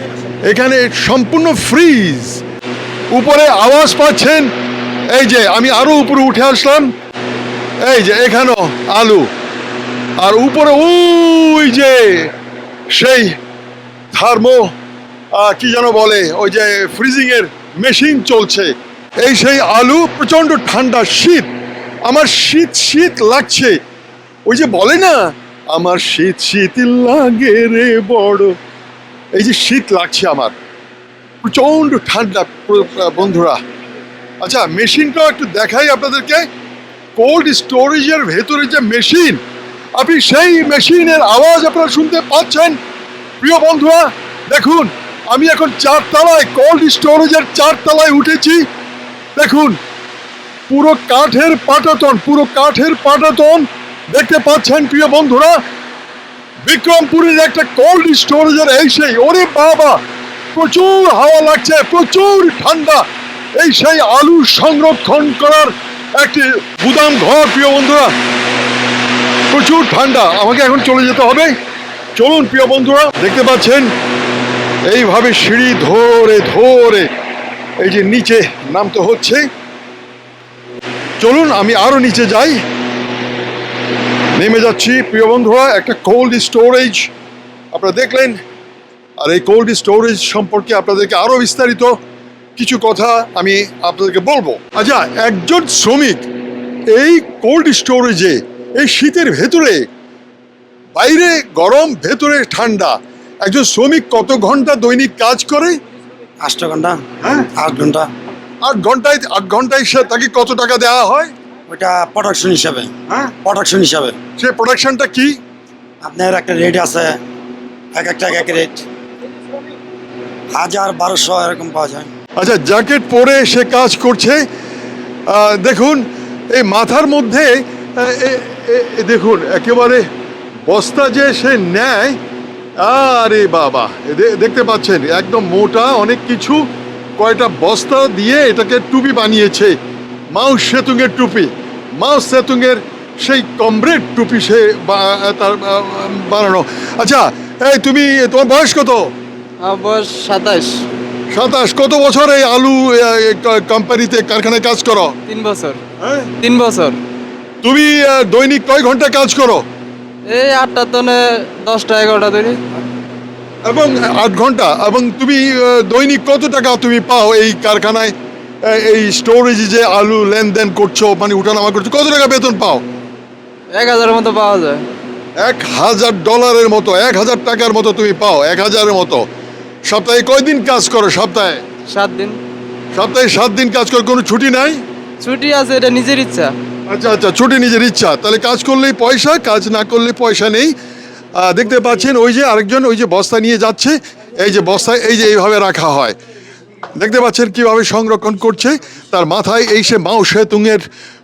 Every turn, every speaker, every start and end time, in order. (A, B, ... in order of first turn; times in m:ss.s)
0:00.4-0:02.4 A
0:03.1-0:04.5 A
0:05.1-0:06.9 A
0:07.8-0:09.3 A
0:10.2-0:12.3 A
0:12.9-0:13.4 A
0:14.1-0:14.7 A
0:15.3-0:21.5 A
0:22.0-0:23.8 A
0:24.5-0:28.5 A
0:29.3-0:30.5 A
0:31.4-0:33.6 A
0:34.4-0:36.4 A
0:37.2-0:39.4 A
0:40.0-0:42.8 A
0:43.4-0:48.6 A
0:49.4-0:49.8 A
0:50.7-0:55.6 A
0:56.6-1:00.0 A
1:00.5-1:03.0 A
1:03.6-1:08.1 A
1:09.5-1:11.5 A
1:12.2-1:13.9 A
1:14.9-1:17.1 A
1:17.8-1:19.4 A
1:21.2-1:22.6 A
1:24.4-1:27.1 A
1:27.7-1:28.4 A
1:29.2-1:32.0 A
1:32.6-1:36.2 A
1:36.9-1:39.8 A
1:40.9-1:45.8 A
1:46.4-1:48.1 B
1:48.6-1:51.3 A
1:51.7-1:54.2 B
1:54.4-1:55.4 A
1:56.0-1:57.2 B
1:57.9-1:58.9 B
2:00.5-2:02.1 B
2:02.4-2:04.4 A
2:05.3-2:10.0 A
2:10.7-2:12.2 A
2:12.8-2:16.7 A
2:17.2-2:19.8 A
2:20.3-2:29.1 A
2:29.6-2:30.8 C
2:31.3-2:35.1 A
2:35.3-2:35.8 C
2:36.0-2:36.3 A
2:36.4-2:37.0 C
2:37.6-2:39.6 A
2:40.3-2:42.6 C
2:43.6-2:52.8 A
2:53.7-2:54.8 C
2:55.4-2:59.2 A
2:59.8-3:01.6 A
3:01.9-3:02.4 C
3:02.9-3:04.8 A
3:05.2-3:06.5 C
3:06.9-3:10.7 A
3:11.4-3:16.2 A
3:17.0-3:20.8 A